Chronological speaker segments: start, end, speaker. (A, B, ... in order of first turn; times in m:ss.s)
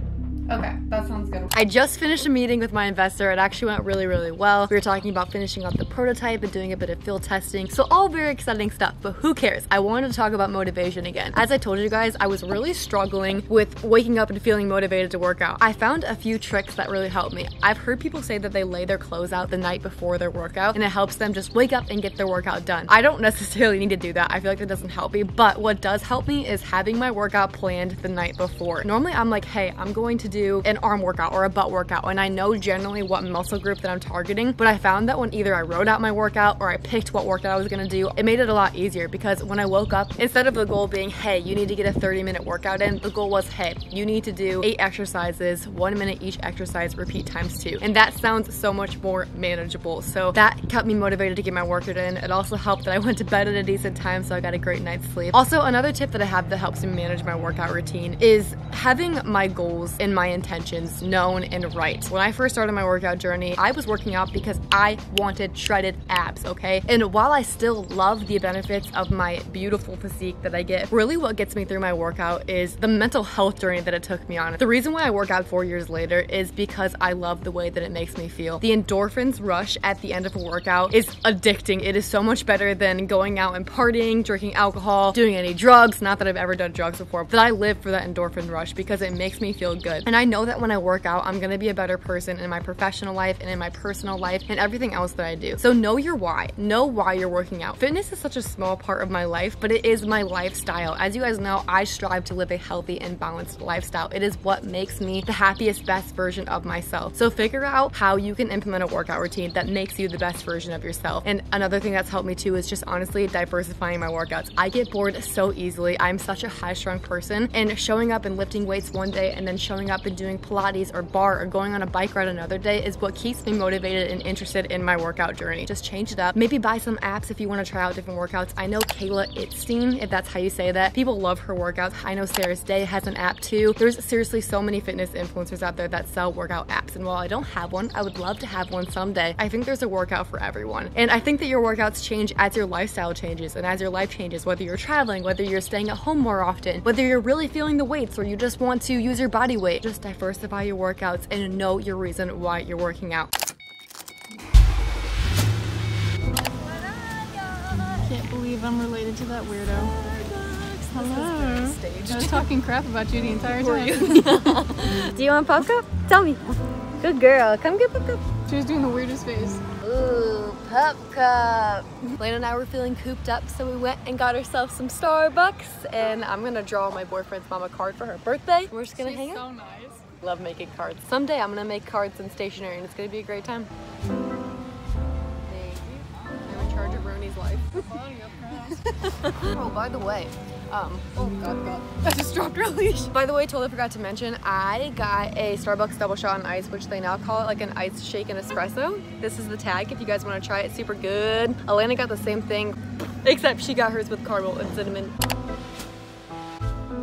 0:00.5-2:33.3 A
2:36.5-2:38.2 A
2:38.1-2:39.9 B
2:39.7-2:42.5 A
2:41.0-2:44.2 B
2:43.4-2:48.3 A
2:48.5-2:49.6 B
2:49.8-2:59.5 A
2:59.3-3:00.0 B
3:00.0-3:03.7 A
3:05.5-3:25.1 A